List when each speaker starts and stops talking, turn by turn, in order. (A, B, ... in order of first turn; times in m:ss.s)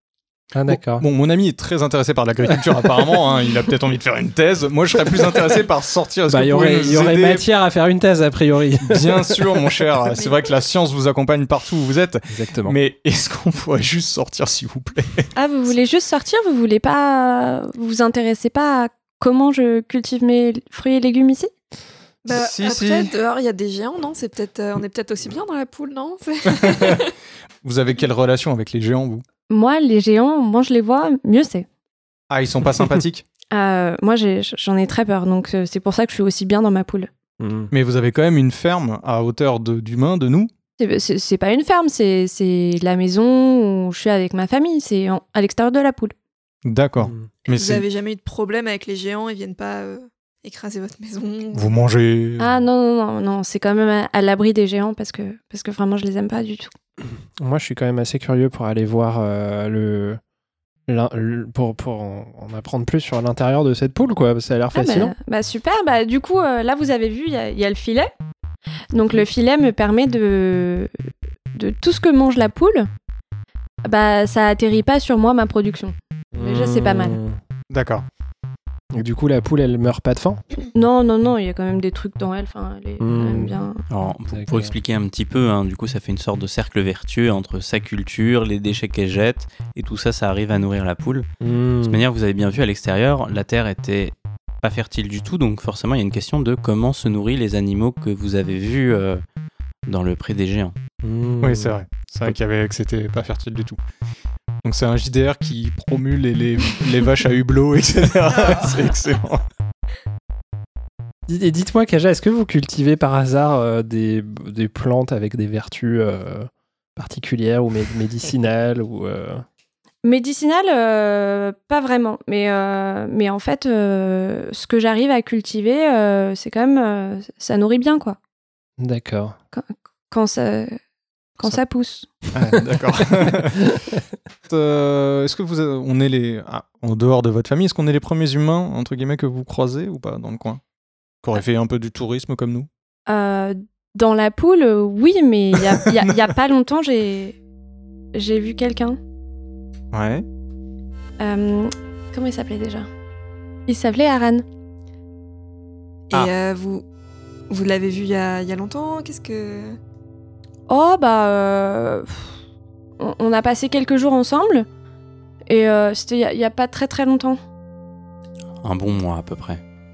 0:00.5-0:01.1 A
0:00.7-0:07.5 B
0:05.1-0:05.4 A
0:06.3-0:09.9 A
0:08.8-0:15.3 B
0:12.3-0:12.8 A
0:15.4-0:21.5 C
0:22.2-0:27.1 D
0:22.3-0:23.1 B
0:26.6-0:27.0 B
0:27.6-0:29.2 B
0:29.5-0:31.7 C
0:32.3-0:33.2 B
0:33.5-0:37.1 C
0:37.4-0:37.7 A
0:37.7-0:40.5 B
0:40.8-0:46.2 C
0:46.6-0:47.9 B
0:47.0-0:47.3 A
0:47.5-0:51.7 D
0:51.5-0:52.5 B
0:52.4-0:56.7 C
0:57.4-1:00.2 A
1:00.9-1:05.2 A
1:04.7-1:08.1 C
1:08.9-1:10.9 C
1:11.5-1:12.9 C
1:13.8-1:17.2 C
1:16.3-1:17.4 A
1:17.7-1:18.1 B
1:18.9-1:20.4 A
1:20.7-1:23.8 C
1:23.0-1:23.6 A
1:23.9-1:31.3 E
1:24.3-1:24.8 A
1:31.4-1:32.0 A
1:31.8-1:39.2 E
1:39.9-1:40.8 E
1:41.0-1:41.8 A
1:41.4-1:43.8 B
1:44.6-1:49.4 B
1:51.3-1:59.4 A
2:00.0-2:08.2 C
2:08.8-2:09.4 A
2:09.5-2:10.8 C
2:11.4-2:12.1 C
2:12.3-2:13.7 B
2:13.2-2:14.0 A
2:14.5-2:20.6 B
2:21.2-2:22.7 B
2:23.1-2:27.4 C
2:28.1-2:29.0 C
2:29.9-2:30.2 B
2:31.2-2:32.9 C
2:33.7-2:34.4 C
2:36.1-2:36.9 D
2:37.5-2:39.8 D
2:40.7-2:42.3 C
2:43.0-2:44.7 C
2:45.5-2:47.4 C
2:48.6-2:49.6 E